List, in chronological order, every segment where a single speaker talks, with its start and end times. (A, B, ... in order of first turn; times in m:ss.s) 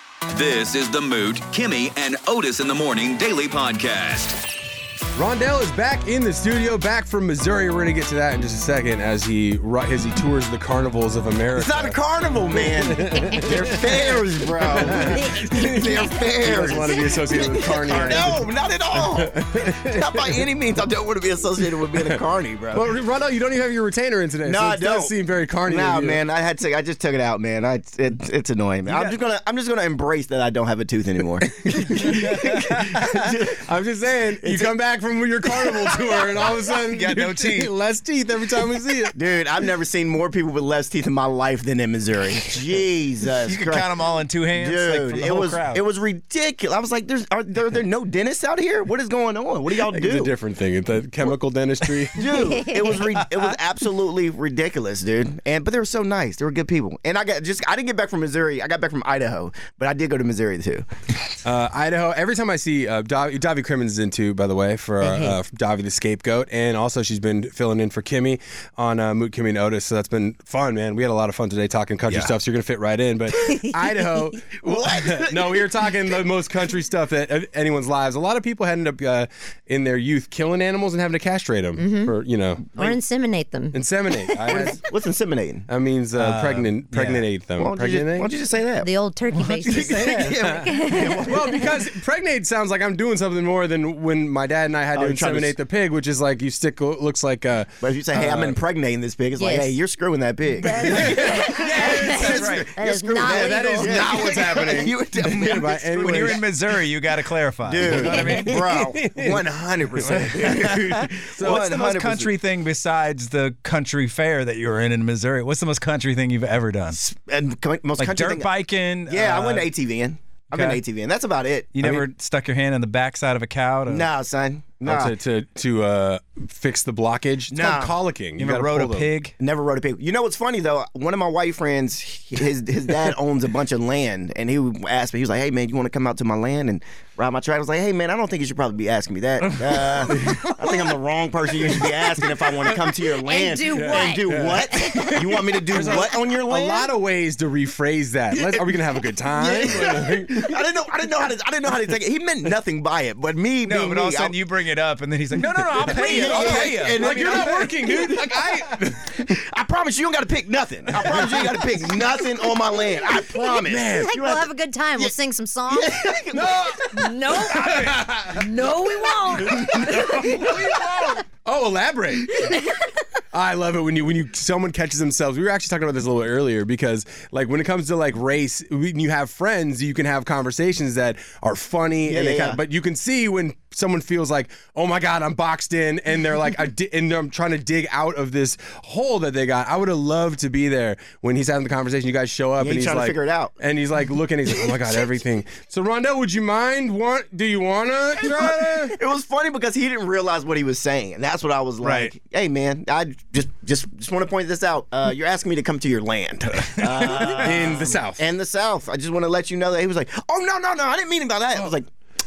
0:00.3-0:04.4 A
0:05.1-0:12.0 B
0:11.6-0:22.9 C
0:12.5-0:20.5 B
0:15.1-0:16.2 D
0:17.9-0:18.4 E
0:21.9-0:22.2 B
0:22.7-0:26.2 B
0:24.4-0:25.1 C
0:25.6-0:33.6 C
0:28.8-0:29.2 E
0:31.6-0:32.4 B
0:32.9-0:39.2 B
0:34.4-0:34.8 C
0:35.4-0:36.5 C
0:36.9-0:37.7 E
0:39.1-0:43.9 C
0:43.4-0:45.8 E
0:44.5-0:50.3 C
0:49.8-0:52.4 B
0:52.1-1:00.8 C
0:52.3-0:53.0 D
0:53.2-0:53.6 E
1:01.4-1:22.9 B
1:05.0-1:05.3 D
1:12.1-1:12.3 E
1:13.4-1:13.8 D
1:14.6-1:15.7 C
1:21.8-1:22.1 D
1:22.7-1:24.6 D
1:23.7-1:24.8 B
1:24.4-1:25.7 C
1:25.7-1:28.3 B
1:26.1-1:27.2 E
1:27.6-1:28.9 C
1:28.8-1:31.6 D
1:29.3-1:30.0 E
1:29.6-1:31.7 C
1:29.7-1:38.6 B
1:34.9-1:35.5 C
1:37.8-1:46.4 C
1:39.4-1:39.7 D
1:40.6-1:44.4 D
1:40.9-1:42.4 B
1:40.9-1:42.7 E
1:43.2-1:46.5 B
1:45.2-1:48.7 E
1:47.6-1:52.3 C
1:47.9-1:51.7 B
1:48.0-1:48.6 D
1:50.3-1:57.0 E
1:57.0-1:58.5 C
1:58.0-1:59.7 E
1:59.1-2:02.0 C
2:00.5-2:00.8 E
2:01.7-2:04.1 E
2:03.9-2:05.1 C
2:04.8-2:09.1 B
2:07.5-2:08.0 C
2:08.4-2:09.3 E
2:09.4-2:26.9 C
2:19.4-2:20.4 E
2:20.1-2:20.5 B
2:21.7-2:22.2 B
2:23.2-2:26.0 D
2:23.7-2:30.5 B
2:28.3-2:34.4 C
2:33.6-2:37.7 E
2:35.4-2:39.2 B
2:35.8-2:38.4 C
2:39.0-2:45.1 C
2:41.0-2:41.5 B
2:43.6-2:44.1 B
2:44.0-2:46.1 D
2:45.7-2:46.8 C
2:46.3-2:48.7 B
2:46.8-2:50.6 D
2:47.3-2:47.8 C
2:49.4-2:52.6 B
2:49.5-2:50.5 C
2:52.4-2:52.8 D
2:53.3-3:19.0 B
3:02.0-3:02.6 C
3:12.6-3:13.5 C
3:18.2-3:31.9 C
3:21.8-3:22.1 E
3:26.5-3:27.9 E
3:27.0-3:28.2 B